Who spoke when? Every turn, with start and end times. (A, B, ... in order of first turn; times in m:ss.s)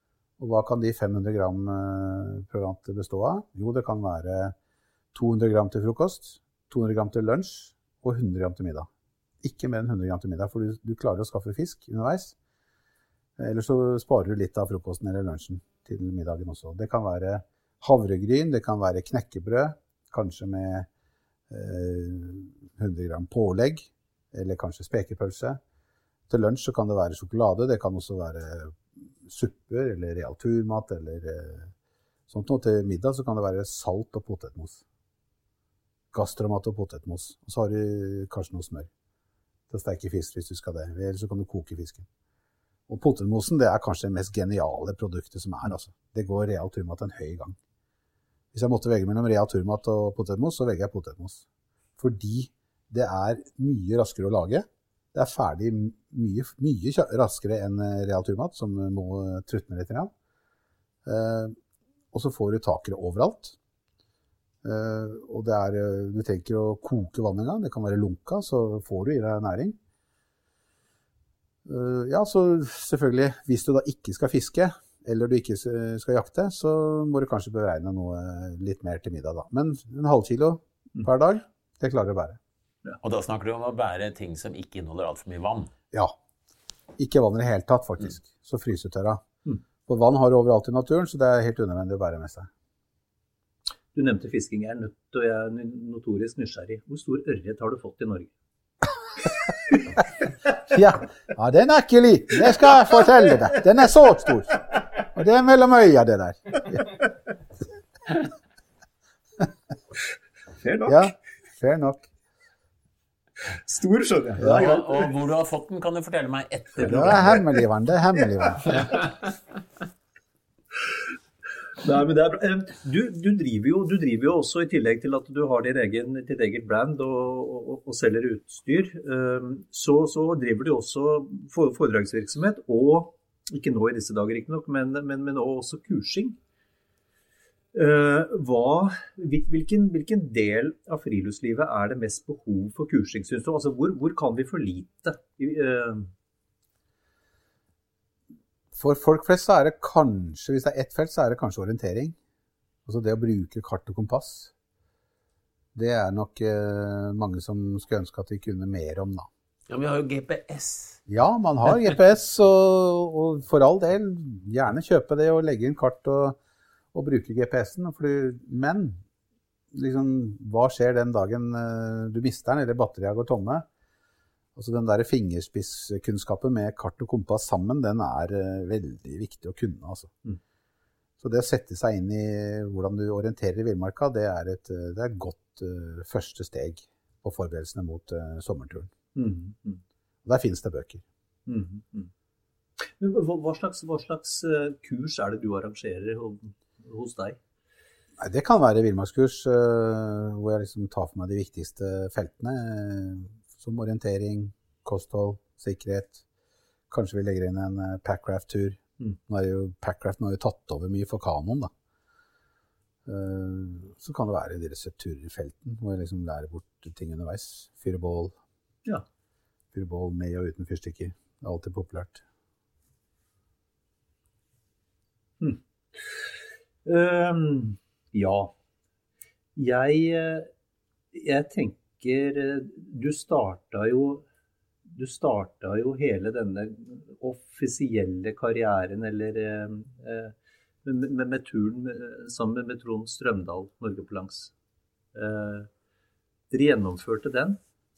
0:00.4-0:04.5 A
0:05.1-0:08.9 A
0:09.4-0:12.3 A
0:13.4-0:20.9 A
0:21.5-0:25.6 A
0:26.3-0:31.7 A
0:32.3-0:34.8 A
0:36.1-0:38.9 A
0:39.7-0:42.0 A
0:42.9-0:47.6 A
0:48.5-0:51.4 A
0:52.0-1:00.1 A
1:01.0-1:01.6 A
1:02.1-1:03.6 A
1:04.6-1:09.8 A
1:11.6-1:22.4 A
1:23.0-1:25.7 B
1:27.0-1:29.2 A
1:29.8-1:32.5 A
1:33.9-1:38.3 C
1:40.7-1:46.9 A
1:50.6-1:51.1 C
1:50.9-1:52.1 A
1:53.6-1:55.1 C
1:54.4-1:57.4 B
1:56.8-1:58.8 A
1:56.9-1:57.6 C
1:58.8-1:59.2 B
2:01.8-2:16.4 C
2:17.7-2:26.1 C
2:28.7-2:32.2 A
2:32.9-2:34.5 A
2:35.7-2:39.3 A
2:39.7-2:41.0 B
2:41.1-2:46.4 A
2:46.9-2:49.0 A
2:49.7-2:53.6 A
2:54.6-3:00.1 A
3:01.2-3:08.9 A
3:09.1-3:09.8 C
3:10.2-3:11.0 A
3:11.5-3:12.1 C
3:12.8-3:17.4 C
3:18.2-3:26.2 A
3:26.9-3:31.7 A
3:33.0-3:38.4 A
3:39.7-3:42.2 A
3:45.4-3:46.3 C
3:46.8-3:48.5 C
3:49.6-3:50.5 C
3:51.1-3:54.2 C
3:54.9-4:00.3 C
4:00.8-4:04.5 C
4:05.1-4:05.7 C
4:06.5-4:07.6 C